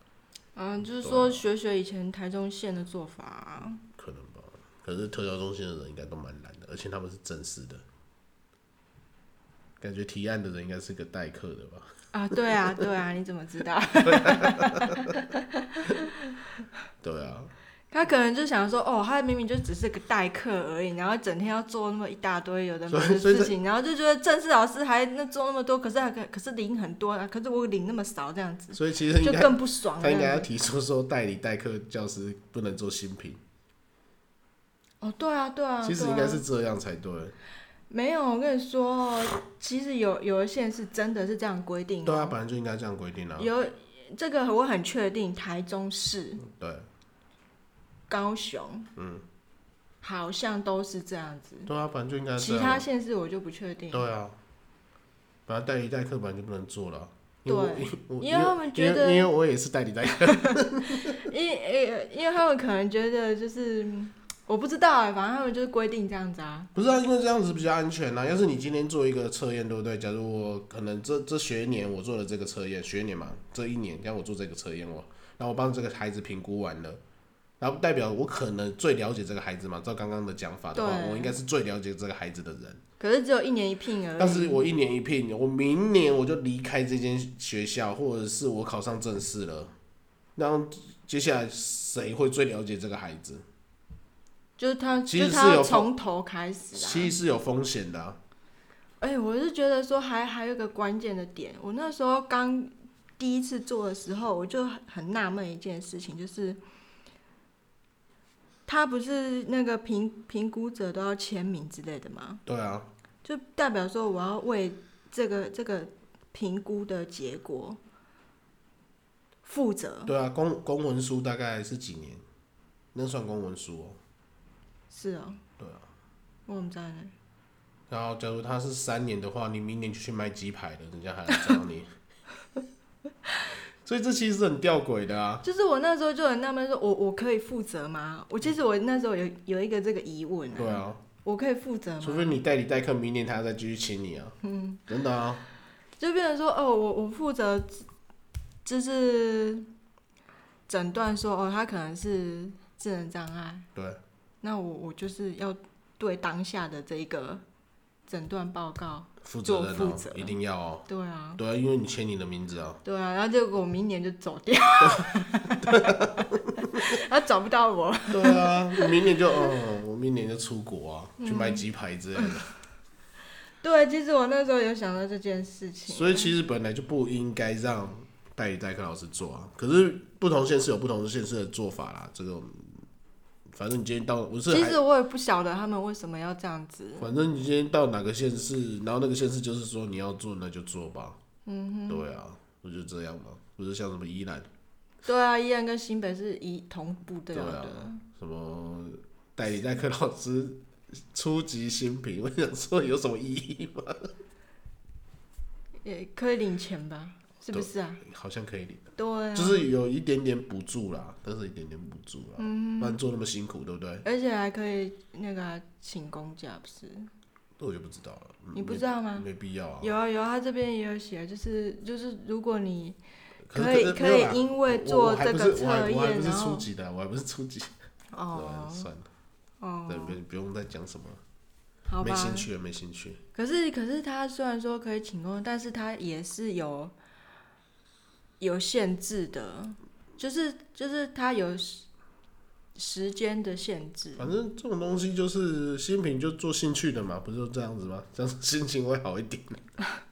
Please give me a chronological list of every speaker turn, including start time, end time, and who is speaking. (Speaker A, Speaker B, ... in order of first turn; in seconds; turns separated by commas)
Speaker A: 0.6-3.8, Speaker B: 1.0-1.4, Speaker B: 4.0-7.8, Speaker B: 9.8-12.8, Speaker A: 12.1-16.4, Speaker B: 14.0-15.2, Speaker B: 17.0-17.5, Speaker A: 17.9-30.5, Speaker B: 22.9-23.5, Speaker B: 28.7-33.4, Speaker A: 35.0-36.4, Speaker B: 35.8-37.4, Speaker A: 37.9-42.4, Speaker B: 42.0-43.5, Speaker A: 43.4-46.4, Speaker B: 46.4-46.9, Speaker A: 48.1-48.9, Speaker B: 49.0-49.2, Speaker A: 50.0-51.7, Speaker B: 51.7-52.9, Speaker A: 52.4-54.1, Speaker B: 53.9-54.4, Speaker B: 55.5-61.3, Speaker A: 57.5-59.3, Speaker A: 60.2-66.7, Speaker B: 66.8-77.0, Speaker B: 77.6-82.8, Speaker A: 80.7-81.4, Speaker A: 83.0-84.6, Speaker B: 84.2-89.7, Speaker B: 90.4-93.4, Speaker A: 94.6-97.2, Speaker B: 95.1-95.9, Speaker B: 96.7-98.2, Speaker A: 99.0-106.6, Speaker A: 108.7-112.4, Speaker B: 112.5-112.9, Speaker A: 113.2-117.8, Speaker A: 119.4-120.1, Speaker B: 120.1-122.2, Speaker B: 122.9-124.0, Speaker A: 124.9-125.4, Speaker B: 125.6-125.9, Speaker A: 126.5-127.1, Speaker B: 127.9-131.9, Speaker A: 131.3-131.6, Speaker B: 133.8-135.4, Speaker A: 135.4-142.4, Speaker B: 140.6-141.0, Speaker B: 142.0-145.4, Speaker A: 144.4-144.8, Speaker A: 146.0-147.9, Speaker A: 148.6-149.7, Speaker A: 150.7-153.7, Speaker B: 153.8-154.0, Speaker A: 154.4-157.4, Speaker A: 158.1-160.4, Speaker B: 159.2-160.9, Speaker A: 160.9-161.4, Speaker B: 161.4-162.8, Speaker A: 162.8-169.5, Speaker B: 164.8-166.8, Speaker B: 168.1-172.5, Speaker A: 171.2-171.6, Speaker A: 173.6-176.3, Speaker B: 175.9-182.8, Speaker B: 183.5-184.8, Speaker A: 184.5-187.1, Speaker B: 187.0-191.2, Speaker A: 191.4-192.1, Speaker B: 191.9-194.5, Speaker A: 195.1-198.0, Speaker B: 197.3-204.1, Speaker A: 205.8-208.0, Speaker B: 207.5-214.1, Speaker A: 209.0-209.7, Speaker A: 212.4-213.0, Speaker A: 214.1-217.1, Speaker B: 217.6-219.9, Speaker A: 218.6-219.3, Speaker A: 219.8-223.0, Speaker B: 223.5-227.8, Speaker A: 223.5-226.7, Speaker A: 228.1-228.9, Speaker B: 228.3-229.1, Speaker A: 229.6-230.2, Speaker B: 229.9-231.2, Speaker A: 231.9-232.5, Speaker B: 232.0-233.2, Speaker A: 233.3-236.9, Speaker A: 238.4-241.9, Speaker A: 242.8-244.3, Speaker B: 244.2-249.7